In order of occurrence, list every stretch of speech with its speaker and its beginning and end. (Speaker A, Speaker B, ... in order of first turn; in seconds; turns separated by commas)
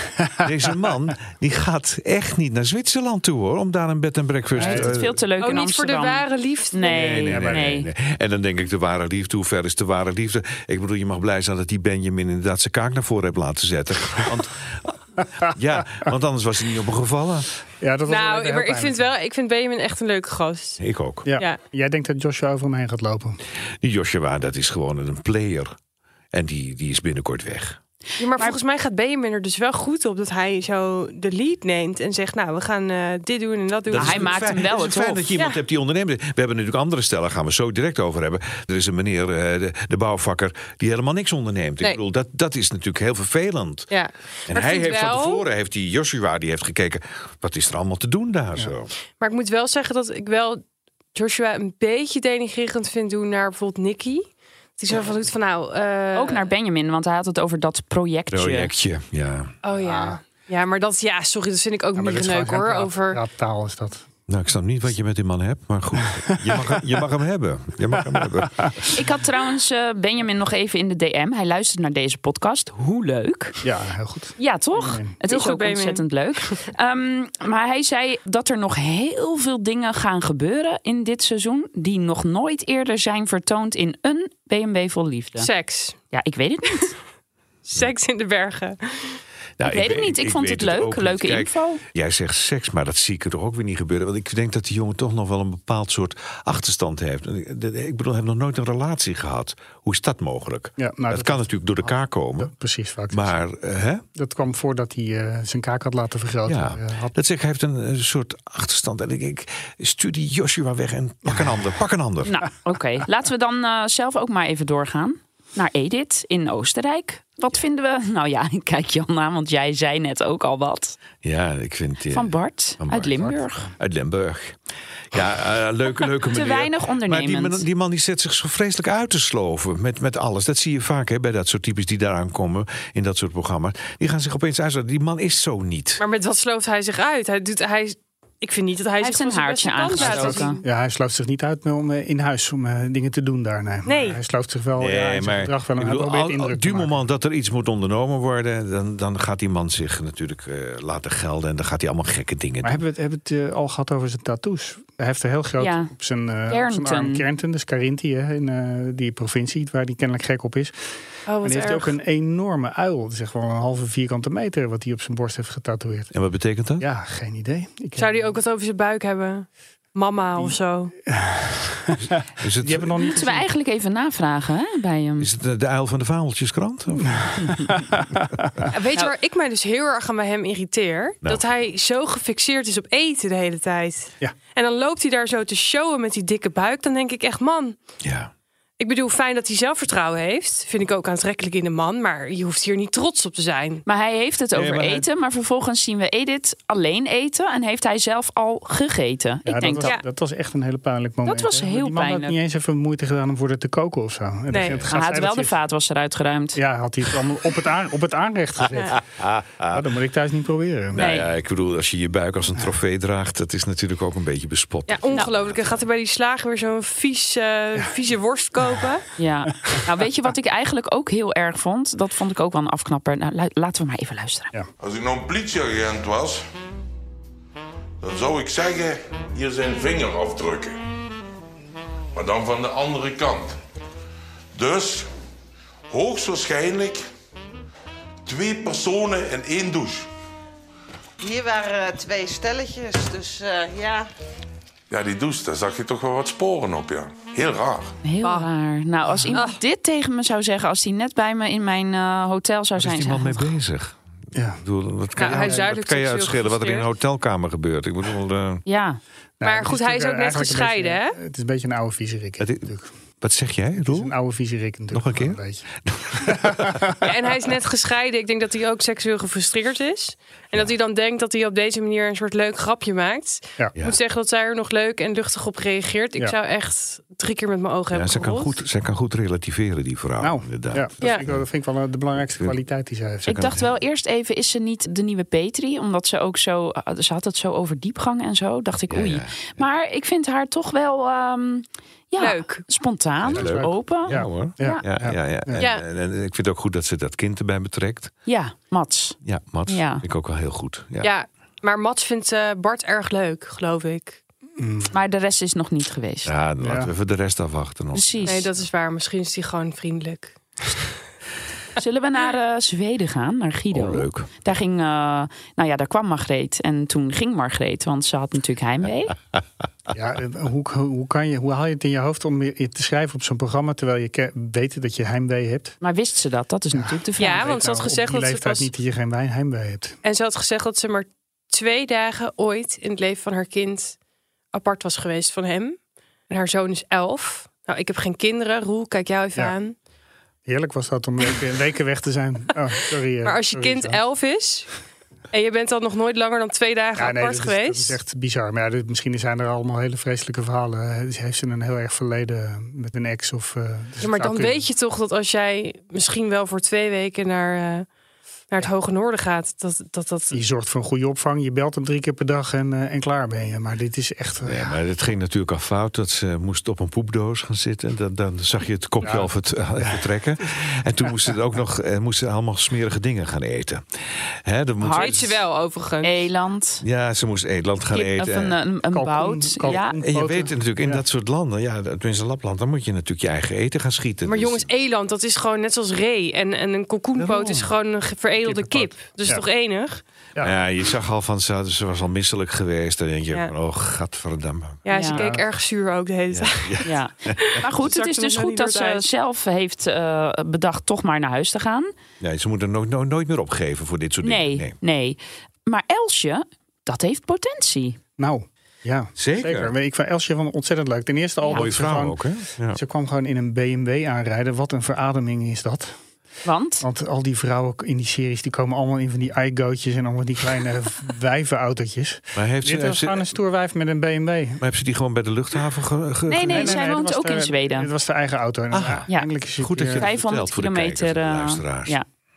Speaker A: 0.4-5.2, Speaker B: 4.6-4.9, Speaker C: 4.6-7.9, Speaker D: 5.4-7.1, Speaker A: 6.8-17.5, Speaker B: 7.3-7.7, Speaker B: 17.8-19.0, Speaker D: 18.1-20.8, Speaker A: 20.8-21.3, Speaker B: 21.2-23.4, Speaker A: 23.8-25.8, Speaker A: 26.3-27.8, Speaker D: 28.2-34.4, Speaker A: 33.9-43.9, Speaker C: 33.9-35.3, Speaker D: 43.9-45.4, Speaker A: 44.5-48.9, Speaker D: 49.2-50.6, Speaker D: 51.1-54.3, Speaker D: 54.8-56.5, Speaker C: 56.1-58.7, Speaker A: 58.3-59.5, Speaker D: 59.6-63.2, Speaker B: 59.8-60.2, Speaker B: 62.0-64.0, Speaker A: 64.3-68.8, Speaker B: 68.2-68.9, Speaker C: 68.9-73.6, Speaker B: 73.6-75.2, Speaker C: 74.4-85.5, Speaker D: 75.2-76.5, Speaker D: 85.4-86.0, Speaker C: 86.1-87.0, Speaker D: 87.7-89.2, Speaker A: 89.6-102.5, Speaker C: 89.6-91.8, Speaker B: 100.8-103.4, Speaker A: 103.1-104.0, Speaker B: 104.2-107.1, Speaker A: 106.5-112.4, Speaker C: 112.2-121.0, Speaker A: 121.2-124.6, Speaker C: 122.1-123.7, Speaker A: 125.1-136.0, Speaker C: 126.3-127.7, Speaker D: 136.0-140.6, Speaker C: 139.0-140.6, Speaker B: 140.0-147.0, Speaker D: 143.9-144.2, Speaker A: 144.8-152.8, Speaker B: 152.6-160.8, Speaker C: 155.6-155.9, Speaker C: 156.5-157.2, Speaker D: 161.3-162.0, Speaker B: 161.4-166.1, Speaker A: 166.1-166.9, Speaker B: 166.8-168.3, Speaker D: 168.0-170.9, Speaker B: 171.1-172.0, Speaker A: 172.0-173.0, Speaker B: 172.6-173.5, Speaker C: 173.0-175.3, Speaker A: 175.2-177.6, Speaker B: 177.1-178.7, Speaker D: 178.7-187.8, Speaker A: 188.0-188.3, Speaker D: 188.8-193.8, Speaker C: 193.9-200.0, Speaker A: 194.5-195.1, Speaker B: 199.5-205.5, Speaker C: 201.2-202.4, Speaker D: 204.5-204.8, Speaker C: 204.9-206.6, Speaker B: 206.6-209.0, Speaker A: 208.9-209.9, Speaker B: 209.7-211.1, Speaker A: 210.9-215.8, Speaker C: 211.0-211.3, Speaker D: 214.9-219.1, Speaker C: 219.2-224.5, Speaker E: 224.8-226.4, Speaker E: 228.0-230.8, Speaker E: 232.2-233.6, Speaker E: 234.6-235.1, Speaker E: 235.9-237.1, Speaker E: 238.3-240.1, Speaker F: 241.2-244.1, Speaker E: 244.9-247.9, Speaker C: 248.0-253.5, Speaker D: 248.2-248.5, Speaker D: 249.3-249.6, Speaker A: 252.8-254.0, Speaker B: 254.3-254.6, Speaker A: 254.6-258.6, Speaker D: 255.2-256.9, Speaker B: 255.2-255.7, Speaker C: 258.7-259.0, Speaker B: 259.4-262.9, Speaker D: 259.4-261.2, Speaker A: 262.4-262.7, Speaker A: 263.2-264.1, Speaker B: 263.8-265.6, Speaker A: 264.9-266.8, Speaker B: 266.2-267.1, Speaker D: 267.0-278.6, Speaker A: 277.9-281.5, Speaker B: 280.2-283.6, Speaker A: 282.2-282.6, Speaker C: 283.3-294.8, Speaker A: 288.9-289.6, Speaker D: 292.2-292.6, Speaker A: 293.2-298.1, Speaker B: 293.3-295.6, Speaker D: 295.6-295.8, Speaker C: 298.3-300.0, Speaker A: 299.2-301.1, Speaker D: 301.0-304.2, Speaker B: 304.6-304.9, Speaker C: 304.9-306.3, Speaker A: 306.2-308.5, Speaker B: 306.6-306.9, Speaker C: 307.9-308.5, Speaker D: 308.3-310.4, Speaker C: 311.8-319.1, Speaker A: 313.7-314.3, Speaker B: 319.9-325.8, Speaker C: 325.8-327.5, Speaker B: 326.7-330.0, Speaker D: 327.2-328.7, Speaker D: 330.0-334.0, Speaker D: 334.5-335.8, Speaker D: 336.3-339.8, Speaker B: 340.5-344.0, Speaker D: 343.2-344.7, Speaker D: 345.3-348.0, Speaker B: 347.0-354.6, Speaker D: 354.0-357.9, Speaker D: 358.5-360.4, Speaker B: 360.3-364.8, Speaker A: 364.4-375.4, Speaker B: 369.0-369.3, Speaker C: 374.8-375.1, Speaker D: 374.9-376.1, Speaker C: 376.0-376.8, Speaker A: 376.8-378.6, Speaker C: 377.9-380.0, Speaker B: 378.9-381.0, Speaker A: 380.0-384.7, Speaker D: 384.2-390.0, Speaker A: 387.2-387.7, Speaker B: 388.8-389.4, Speaker A: 390.4-394.8, Speaker D: 394.9-399.1, Speaker C: 394.9-395.2, Speaker B: 395.1-395.4, Speaker A: 396.3-397.6, Speaker C: 396.8-401.9, Speaker A: 402.2-404.8, Speaker C: 404.2-408.0, Speaker B: 408.2-415.9, Speaker A: 409.2-409.7, Speaker A: 411.5-412.8, Speaker C: 416.4-416.9, Speaker B: 416.8-424.6, Speaker A: 422.4-423.3, Speaker A: 424.6-426.9, Speaker C: 426.3-427.9, Speaker B: 426.5-430.1, Speaker A: 428.7-432.0, Speaker C: 429.9-432.1